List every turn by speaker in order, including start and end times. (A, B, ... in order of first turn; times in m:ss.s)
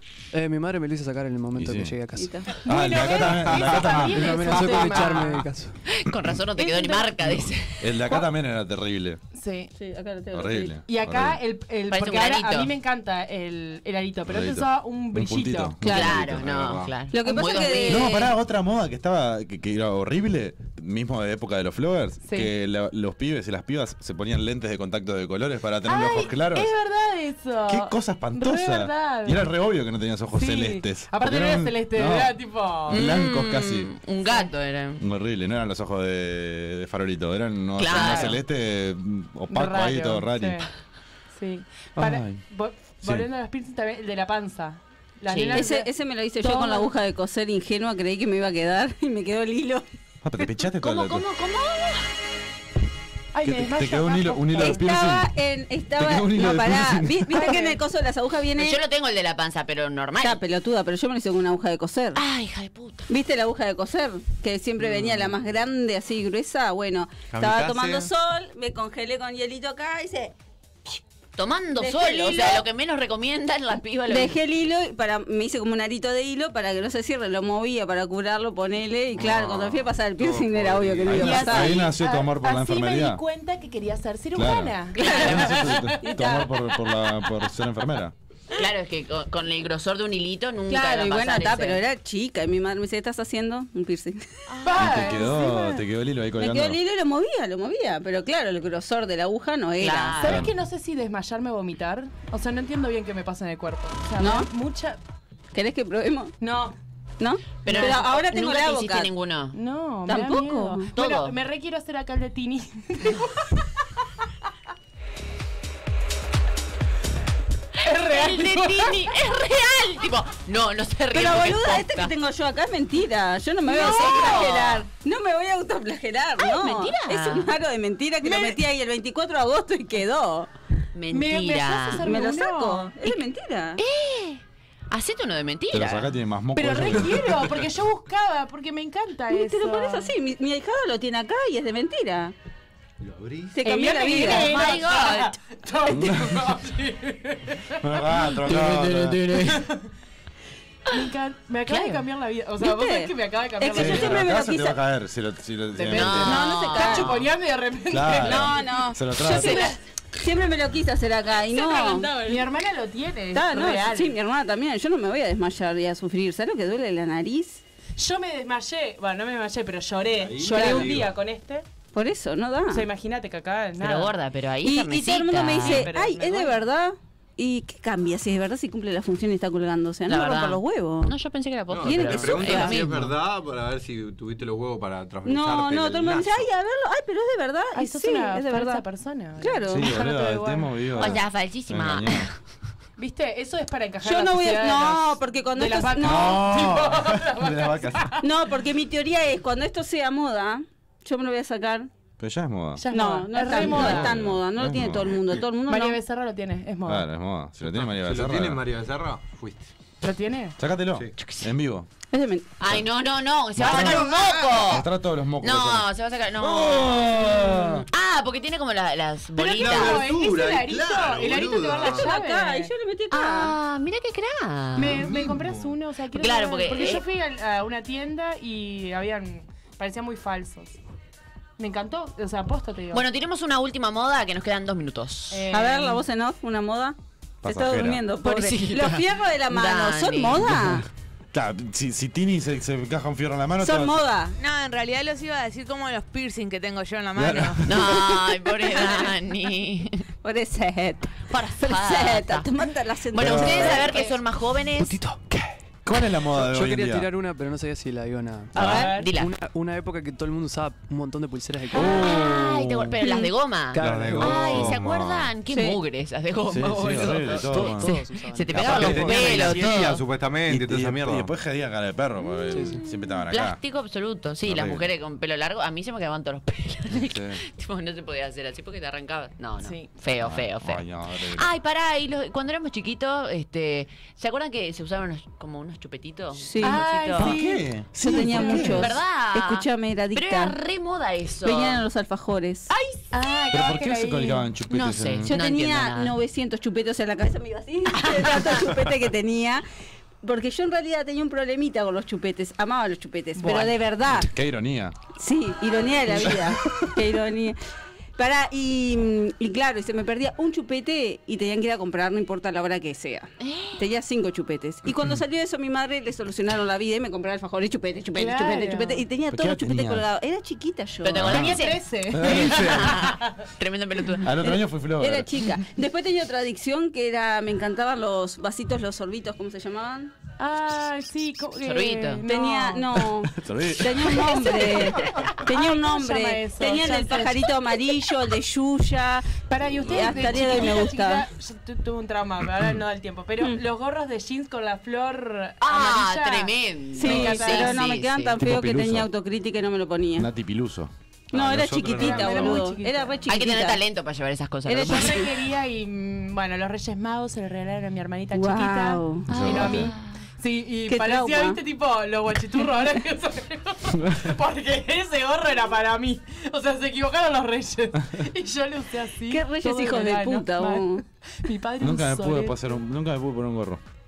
0:00.3-0:02.4 A
0:01.5-0:02.0 B
0:02.2-0:02.5 C
0:02.5-0:05.4 D
0:02.7-0:05.1 B
0:02.9-0:05.4 E
0:04.1-0:05.8 A
0:05.9-0:07.9 F
0:06.6-0:07.5 D
0:07.8-0:09.2 B
0:09.3-0:09.7 D
0:09.8-0:10.8 C
0:10.3-0:11.4 B
0:10.9-0:15.8 D
0:11.9-0:12.7 F
0:14.3-0:16.8 B
0:15.8-0:16.1 C
0:15.9-0:18.1 F
0:16.5-0:16.9 E
0:17.1-0:18.4 C
0:17.3-0:17.8 D
0:17.9-0:26.7 B
0:22.2-0:22.5 D
0:25.9-0:29.5 D
0:27.7-0:33.9 B
0:30.3-0:33.0 D
0:32.9-0:35.0 F
0:35.0-0:40.7 B
0:37.8-0:38.4 F
0:37.9-0:38.4 D
0:39.5-0:40.7 D
0:41.3-0:47.0 D
0:42.0-0:42.4 B
0:43.0-0:43.3 B
0:45.3-0:45.6 F
0:45.5-0:49.8 C
0:50.2-0:51.3 B
0:50.8-0:52.1 F
0:53.3-0:54.9 D
0:53.4-0:55.3 B
0:54.6-0:58.8 C
0:56.0-0:57.6 B
0:57.3-0:57.8 D
0:58.6-1:00.4 F
1:00.2-1:02.2 C
1:02.2-1:03.1 F
1:03.1-1:10.3 C
1:07.3-1:08.1 E
1:11.4-1:14.4 F
1:11.8-1:12.6 C
1:14.1-1:21.8 C
1:19.6-1:19.8 F
1:20.2-1:21.4 E
1:21.0-1:23.2 B
1:21.2-1:27.1 D
1:24.3-1:28.2 B
1:25.0-1:26.5 C
1:25.0-1:25.6 F
1:28.6-1:31.8 F
1:30.7-1:34.2 C
1:34.5-1:35.8 D
1:34.8-1:36.8 B
1:36.4-1:40.2 C
1:39.8-1:40.5 F
1:40.2-1:45.0 D
1:40.2-1:40.5 B
1:44.2-1:44.5 C
1:45.5-1:46.3 C
1:46.4-1:46.8 D
1:47.2-1:49.1 C
1:47.6-1:49.6 F
1:49.5-1:53.6 D
1:50.1-1:50.9 C
1:51.0-1:51.4 F
1:57.8-1:59.1 D
1:57.9-2:02.1 F
2:01.1-2:10.5 C
2:03.7-2:04.9 F
2:03.7-2:04.6 D
2:06.4-2:07.6 F
2:08.2-2:08.6 D
2:11.0-2:12.1 F
2:11.1-2:12.9 D
2:12.0-2:13.8 C
2:13.8-2:16.1 F
2:15.7-2:17.4 B
2:16.6-2:20.1 D
2:19.3-2:22.3 C
2:23.0-2:23.6 E
2:23.5-2:24.5 C
2:23.6-2:28.0 D
2:24.0-2:25.4 F
2:25.9-2:26.5 B
2:27.8-2:29.3 B
2:28.2-2:29.6 F
2:29.4-2:29.9 D
2:30.9-2:34.3 D
2:31.7-2:32.1 F
2:32.6-2:34.8 C
2:33.8-2:36.4 B
2:35.8-2:37.3 F
2:35.9-2:38.6 D
2:36.2-2:37.2 C
2:37.9-2:39.7 B
2:38.2-2:42.4 C
2:39.4-2:39.7 D
2:41.5-2:44.2 D
2:43.3-2:47.6 C
2:48.0-2:51.7 D
2:50.2-2:51.1 E
2:50.5-2:51.0 C
2:51.9-2:52.9 C
2:52.7-2:54.2 D
2:53.8-2:55.9 F
2:54.6-3:01.1 C
2:55.6-2:56.6 D
3:00.1-3:03.2 F
3:01.7-3:06.5 E
3:01.8-3:02.9 C
3:05.2-3:08.8 C
3:07.8-3:11.1 D
3:09.4-3:10.0 C
3:09.7-3:12.3 B
3:11.0-3:12.3 F
3:13.0-3:18.3 D
3:14.0-3:16.4 C
3:16.0-3:18.1 B
3:18.2-3:21.9 C
3:22.2-3:22.9 B
3:22.8-3:24.3 D
3:22.9-3:26.0 C
3:23.5-3:25.4 B
3:25.7-3:27.1 D
3:26.8-3:28.6 B
3:27.6-3:29.7 E
3:30.0-3:30.6 D
3:30.6-3:31.9 B
3:31.2-3:31.5 F
3:32.1-3:32.4 C
3:32.6-3:34.9 F
3:33.6-3:34.8 E
3:33.6-3:34.1 B
3:34.7-3:35.9 B
3:35.4-3:40.0 F
3:36.7-3:37.8 E
3:36.7-3:37.8 B
3:39.4-3:42.7 D
3:39.6-3:42.1 E
3:41.8-3:43.6 C
3:43.1-3:45.1 F
3:44.8-3:50.8 D
3:45.0-3:45.7 E
3:46.1-3:47.0 F
3:51.6-3:53.0 D
3:52.9-3:55.5 F
3:55.3-3:56.0 D
3:55.5-4:00.8 C
3:57.4-3:58.0 B
3:58.2-4:00.6 F
4:00.4-4:04.1 B
4:03.6-4:04.4 C
4:04.4-4:07.7 G
4:07.2-4:08.2 B
4:07.6-4:10.0 F
4:10.2-4:14.1 C
4:11.3-4:12.5 F
4:13.1-4:15.0 F
4:13.2-4:13.8 B
4:13.6-4:14.1 D
4:14.8-4:15.6 A
4:15.8-4:17.1 B
4:16.4-4:22.1 A
4:18.6-4:18.9 C
4:18.6-4:19.1 D
4:18.6-4:19.3 F
4:21.7-4:30.0 F
4:21.8-4:22.8 B
4:23.0-4:23.3 C
4:23.7-4:24.7 A
4:23.8-4:24.9 E
4:24.6-4:25.3 B
4:25.5-4:25.8 C
4:26.5-4:27.9 B
4:26.7-4:28.8 A
4:28.5-4:29.6 B
4:28.6-4:31.3 E
4:30.5-4:33.6 B
4:32.5-4:47.4 F
4:32.5-4:32.8 A
4:34.4-4:34.9 B
4:36.9-4:37.4 B
4:39.6-4:39.9 D
4:40.2-4:41.5 B
4:46.4-4:46.8 C
4:46.6-4:47.7 D
4:47.2-4:48.9 B
4:48.0-4:50.6 C
4:48.2-4:51.8 F
4:48.3-4:48.7 D
4:51.4-4:52.7 C
4:52.7-4:54.5 D
4:53.5-4:55.3 B
4:54.7-4:56.2 F
4:55.3-4:59.6 C
4:58.0-4:58.6 F
5:00.2-5:04.3 C
5:03.4-5:03.7 D
5:04.1-5:05.0 B
5:05.2-5:07.6 C
5:06.2-5:06.5 B
5:08.2-5:21.2 C
5:13.4-5:13.8 F
5:14.9-5:15.2 B
5:18.2-5:19.0 D
5:19.3-5:20.0 B
5:21.0-5:24.3 F
5:21.2-5:21.6 B
5:21.2-5:23.4 D
5:22.1-5:22.9 B
5:24.2-5:25.4 B
5:25.0-5:30.1 C
5:30.4-5:33.1 D
5:31.6-5:32.2 F
5:32.3-5:41.3 C
5:33.4-5:34.4 B
5:34.0-5:37.8 D
5:39.5-5:47.8 D
5:39.7-5:40.7 B
5:45.6-5:48.4 F
5:47.0-5:50.3 C
5:48.4-5:49.1 B
5:50.2-5:52.4 B
5:51.3-5:53.8 C
5:51.4-5:52.6 E
5:51.9-5:53.2 D
5:53.3-5:55.3 F
5:54.6-5:55.3 C
5:54.8-6:12.8 D
5:58.3-5:59.6 C
5:59.3-5:59.9 B
5:59.3-6:00.1 F
6:00.9-6:01.6 C
6:03.9-6:04.4 B
6:09.3-6:11.0 C
6:11.8-6:13.8 B